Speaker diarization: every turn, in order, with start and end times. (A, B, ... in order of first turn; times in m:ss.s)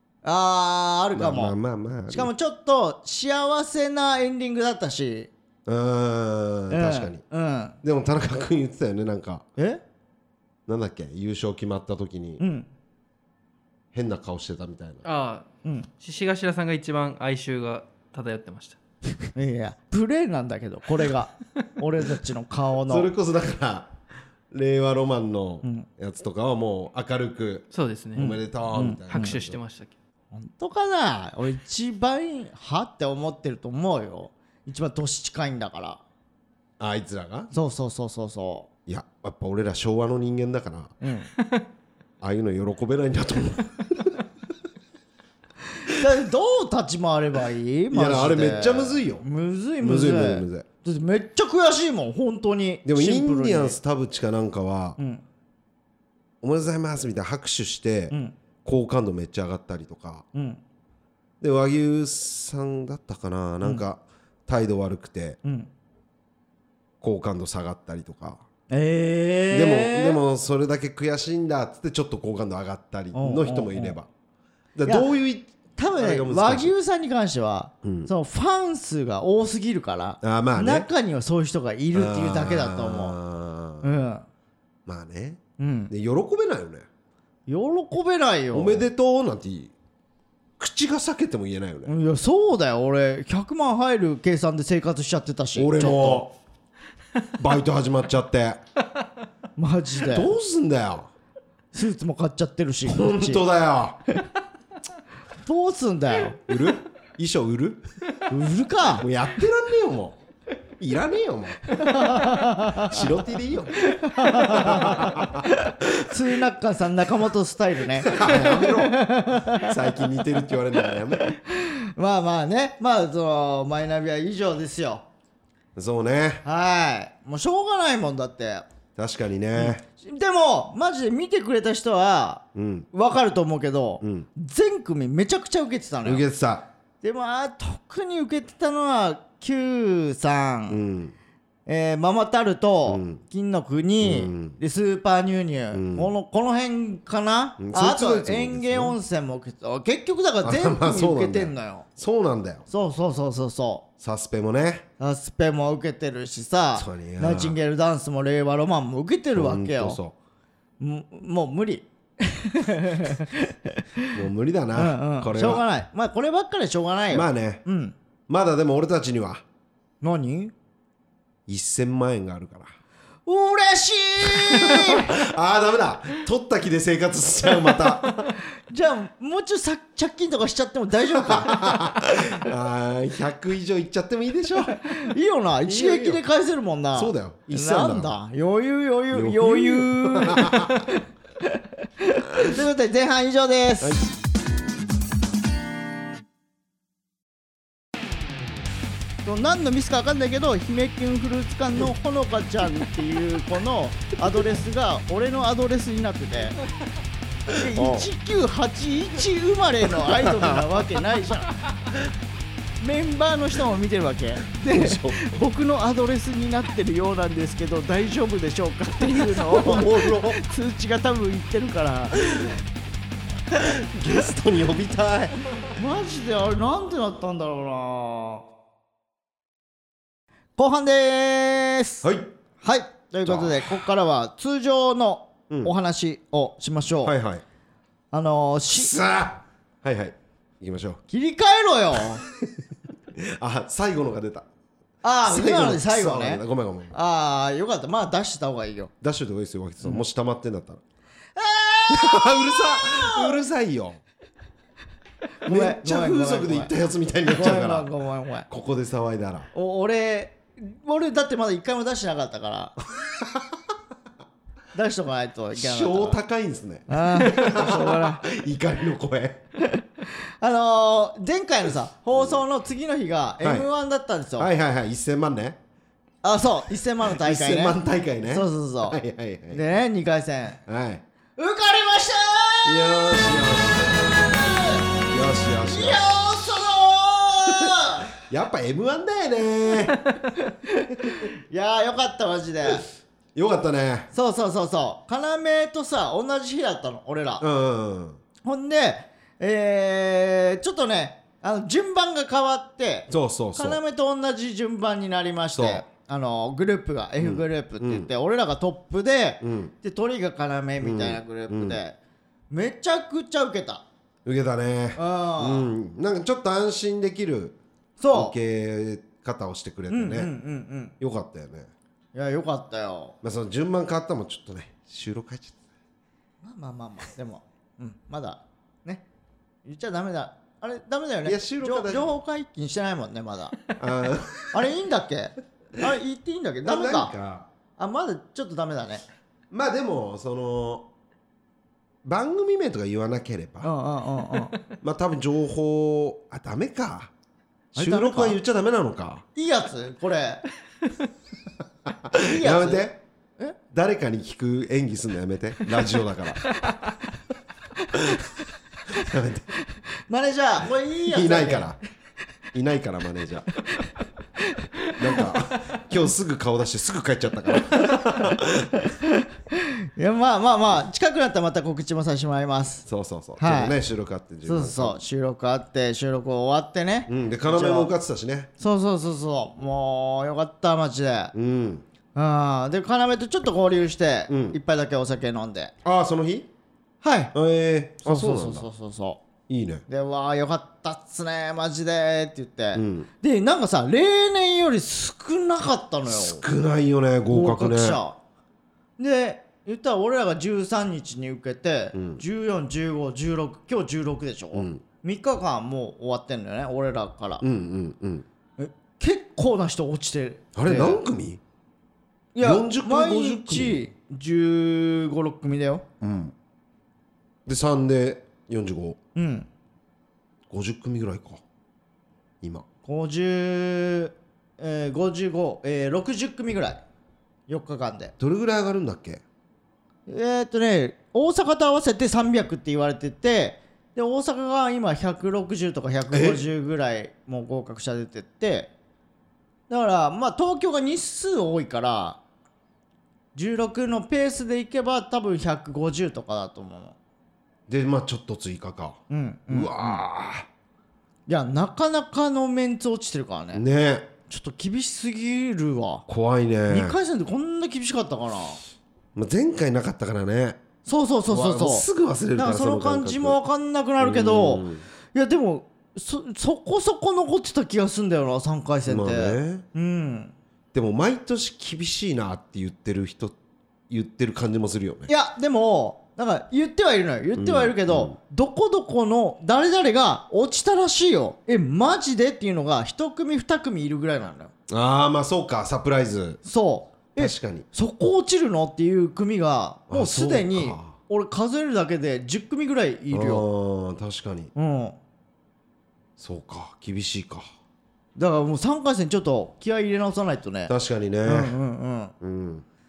0:00.2-0:01.6 A
0:01.1-0:02.3 B
0:02.1-0:05.3 A
0:05.7-0:07.2 B
0:06.7-0:07.8 A
0:07.8-0:09.4 B
0:09.6-0:09.8 A
0:10.7-0:12.4 B
0:12.4-0:12.7 A
0:13.9-0:15.0 B
0:15.0-0:15.5 C
0:15.6-0:15.9 A
0:16.0-0:18.8 C
0:19.4-0:23.1 A
0:22.9-0:23.9 B
0:24.5-0:29.6 B
0:27.7-0:28.4 C
0:28.2-0:29.3 A
0:29.1-0:29.9 C
0:30.3-0:36.0 A
0:36.8-0:37.5 B
0:37.5-0:38.7 A
0:38.9-0:41.0 B
0:41.0-0:41.3 A
0:42.2-0:44.2 B
0:45.8-0:53.8 A
0:47.9-0:49.2 B
0:49.8-0:50.7 B
0:52.8-0:55.0 B
0:56.4-1:00.3 B
0:58.1-0:58.4 A
1:00.3-1:00.6 A
1:01.4-1:05.4 B
1:05.4-1:05.7 A
1:07.0-1:08.4 B
1:08.7-1:10.2 A
1:09.5-1:14.1 B
1:13.1-1:14.0 A
1:14.8-1:16.7 B
1:15.8-1:23.2 A
1:17.8-1:18.1 B
1:20.2-1:20.9 B
1:21.9-1:23.9 B
1:23.8-1:24.2 A
1:24.9-1:26.9 B
1:25.6-1:25.9 A
1:27.5-1:28.9 A
1:28.5-1:29.7 B
1:30.6-1:31.9 B
1:31.9-1:36.2 A
1:35.6-1:36.3 B
1:37.4-1:38.6 B
1:39.6-1:40.3 A
1:40.0-1:41.1 B
1:41.7-1:43.5 A
1:42.8-1:44.0 B
1:45.4-1:46.4 A
1:46.5-1:47.8 B
1:48.3-1:49.1 A
1:49.0-1:50.2 B
1:50.8-1:52.0 B
1:51.8-1:53.0 A
1:52.8-1:56.1 B
1:53.8-2:00.0 A
1:58.0-2:01.3 B
2:01.3-2:05.0 A
2:05.8-2:06.4 B
2:06.4-2:08.7 A
2:09.0-2:09.8 B
2:09.6-2:16.3 A
2:12.6-2:12.9 B
2:14.0-2:14.3 B
2:16.0-2:16.7 B
2:17.0-2:20.8 A
2:20.7-2:21.2 B
2:21.7-2:31.9 A
2:22.9-2:23.2 B
2:24.0-2:24.6 B
2:25.7-2:26.1 B
2:27.6-2:29.0 B
2:30.4-2:32.7 B
2:32.7-2:33.9 A
2:34.0-2:34.9 B
2:35.0-2:40.0 A
2:36.8-2:37.6 B
2:39.3-2:40.2 B
2:40.8-2:44.2 A
2:44.1-2:45.6 B
2:44.8-2:48.0 A
2:47.1-2:47.6 B
2:48.3-2:49.4 B
2:50.0-2:50.5 A
2:51.5-2:52.7 B
2:53.3-2:55.2 A
2:54.3-2:58.4 B
2:58.7-3:02.0 A
3:01.2-3:05.0 B
3:04.8-3:14.0 A
3:05.6-3:06.2 B
3:06.9-3:08.1 B
3:09.1-3:10.9 B
3:13.8-3:14.1 B
3:19.2-3:26.6 A
3:27.5-3:31.5 A
3:27.7-3:28.1 B
3:30.2-3:30.6 B
3:32.8-3:42.5 A
3:34.5-3:35.2 B
3:39.2-3:40.4 B
3:42.2-3:42.5 B
3:43.5-3:45.5 B
3:45.7-3:48.4 A
3:50.6-3:52.1 A
3:52.0-3:52.3 B
3:52.6-3:57.2 A
3:53.2-3:53.9 B
3:57.0-3:57.4 B
3:58.1-3:58.9 A
3:58.7-4:01.0 B
4:01.1-4:02.2 A
4:03.2-4:04.5 B
4:05.0-4:08.9 A
4:05.2-4:06.9 B
4:09.0-4:10.8 B
4:11.4-4:13.4 A
4:11.9-4:14.0 B
4:15.4-4:16.7 A
4:15.5-4:17.9 B
4:17.3-4:18.5 A
4:18.5-4:19.5 B
4:19.5-4:22.8 A
4:23.0-4:23.6 B
4:24.7-4:26.2 A
4:25.5-4:29.4 B
4:26.9-4:28.2 A
4:29.6-4:34.5 A
4:32.2-4:32.4 B
4:33.4-4:33.7 B
4:34.4-4:35.6 B
4:36.2-4:39.0 A
4:37.1-4:39.6 B
4:39.5-4:40.6 A
4:40.7-4:41.0 B
4:41.4-4:43.4 A
4:42.6-4:44.2 B
4:44.1-4:44.9 A
4:45.1-4:46.0 B
4:45.6-4:48.2 A
4:48.2-4:50.0 B
4:50.3-4:52.8 A
4:53.4-4:54.1 B
4:54.1-4:57.4 A
4:57.4-4:58.2 B
4:58.4-5:12.0 A
5:03.1-5:03.8 B
5:05.5-5:05.8 B
5:07.2-5:08.1 B
5:09.4-5:09.7 B
5:10.8-5:11.8 B
5:12.5-5:13.8 A
5:14.2-5:17.6 B
5:15.0-5:15.7 A
5:18.0-5:18.4 A
5:18.1-5:20.3 B
5:19.9-5:20.9 A
5:21.0-5:21.7 B
5:22.1-5:23.2 A
5:23.2-5:25.6 B
5:26.4-5:29.1 A
5:29.6-5:33.6 A
5:31.2-5:32.1 B
5:33.8-5:34.7 B
5:34.5-5:37.1 A
5:36.6-5:37.5 B
5:37.8-5:39.0 A
5:39.5-5:40.9 B
5:42.0-5:43.7 B
5:43.6-5:44.6 A
5:44.8-5:47.1 B
5:47.8-5:48.4 A
5:47.8-5:49.3 B
5:49.4-5:50.4 A
5:52.0-5:53.0 B
5:52.2-5:53.6 A
5:53.7-5:56.6 B
5:57.8-5:58.2 A
5:58.9-5:59.5 B
5:59.7-6:01.8 A
6:01.1-6:01.8 B
6:02.5-6:03.5 B
6:04.4-6:04.7 A
6:04.9-6:08.8 B
6:08.8-6:12.9 A
6:12.9-6:15.0 B
6:13.4-6:13.8 A
6:14.4-6:17.9 A
6:17.1-6:18.5 B
6:18.6-6:21.3 A
6:21.3-6:21.9 B
6:22.2-6:25.7 A
6:24.3-6:24.6 B
6:25.8-6:26.5 B
6:27.0-6:27.3 A
6:27.3-6:28.7 B
6:28.0-6:29.2 A
6:29.5-6:29.8 B
6:29.9-6:36.4 A
6:32.8-6:33.1 B
6:36.1-6:38.0 B
6:37.3-6:38.2 A
6:39.0-6:47.4 A
6:42.0-6:42.2 B
6:44.5-6:44.8 B
6:47.4-6:48.3 B
6:48.6-6:51.0 A
6:50.6-6:51.4 B
6:52.4-6:56.3 A
6:52.4-6:53.8 B
6:57.5-6:59.0 B
6:59.2-6:59.5 A
7:00.5-7:01.4 B
7:02.8-7:06.8 A
7:07.5-7:08.1 A
7:08.2-7:09.2 B
7:10.1-7:18.7 A
7:16.1-7:16.4 B
7:19.7-7:22.2 A
7:23.4-7:27.0 A
7:27.7-7:30.5 B
7:29.1-7:30.0 A
7:31.3-7:33.6 A
7:33.5-7:34.1 B
7:34.3-7:36.1 A
7:36.1-7:37.0 B
7:36.7-7:38.6 A
7:39.2-7:40.6 B
7:40.8-7:50.3 A
7:41.3-7:43.4 B
7:44.0-7:44.8 B
7:48.9-7:49.6 B
7:50.7-7:53.4 B
7:53.9-7:55.1 B
7:55.1-8:04.5 A
7:57.4-7:58.2 B
8:04.7-8:06.4 B
8:06.4-8:13.4 A
8:07.2-8:07.7 B
8:09.9-8:11.0 B
8:13.1-8:14.5 B
8:14.6-8:15.0 A
8:16.2-8:17.4 B
8:18.2-8:20.7 A
8:20.7-8:21.6 B
8:21.2-8:22.1 A
8:22.2-8:22.6 B